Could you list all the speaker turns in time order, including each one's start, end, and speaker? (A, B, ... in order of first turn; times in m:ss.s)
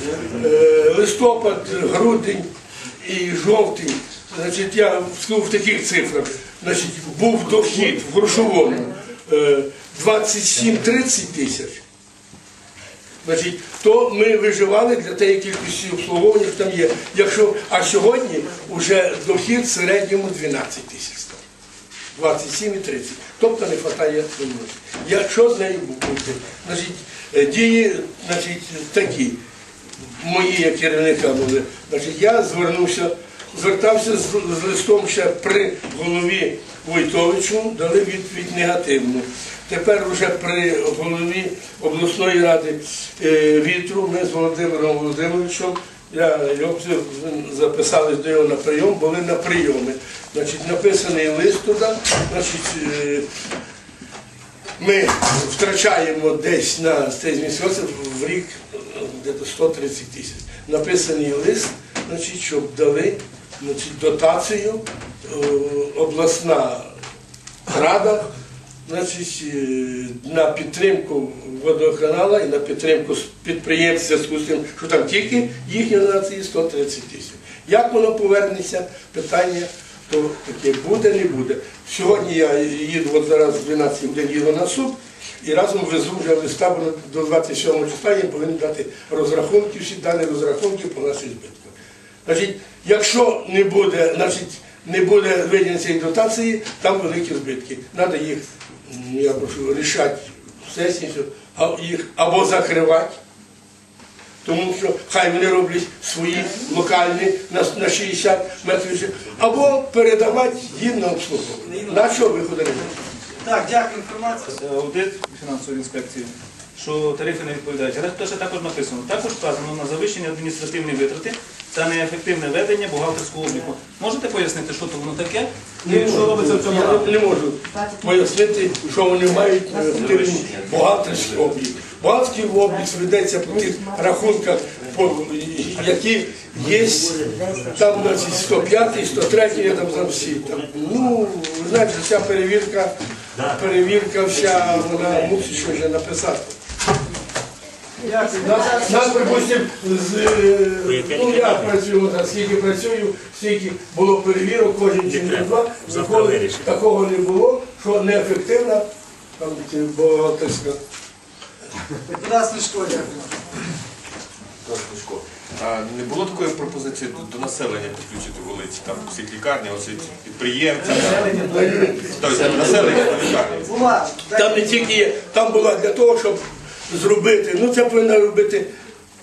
0:00.3-0:02.5 A
0:03.0-0:11.8 A
0:13.2-0:21.4 A
0:22.1-0:29.4 A
0:30.1-0:53.2 A
0:54.8-1:06.9 A
1:07.7-1:08.2 A
1:08.8-1:31.7 A
1:32.2-1:43.1 A
1:44.4-1:52.9 A
1:51.7-1:52.1 B
1:53.4-1:54.5 B
1:54.6-2:07.1 C
2:05.8-2:26.5 A
2:28.0-2:29.4 B
2:28.4-2:38.8 A
2:39.4-2:40.8 A
2:42.1-2:43.3 B
2:44.6-2:51.3 D
2:50.8-2:51.7 B
2:51.5-2:52.9 A
2:52.2-2:53.6 D
2:53.6-2:54.9 B
2:54.3-2:58.7 A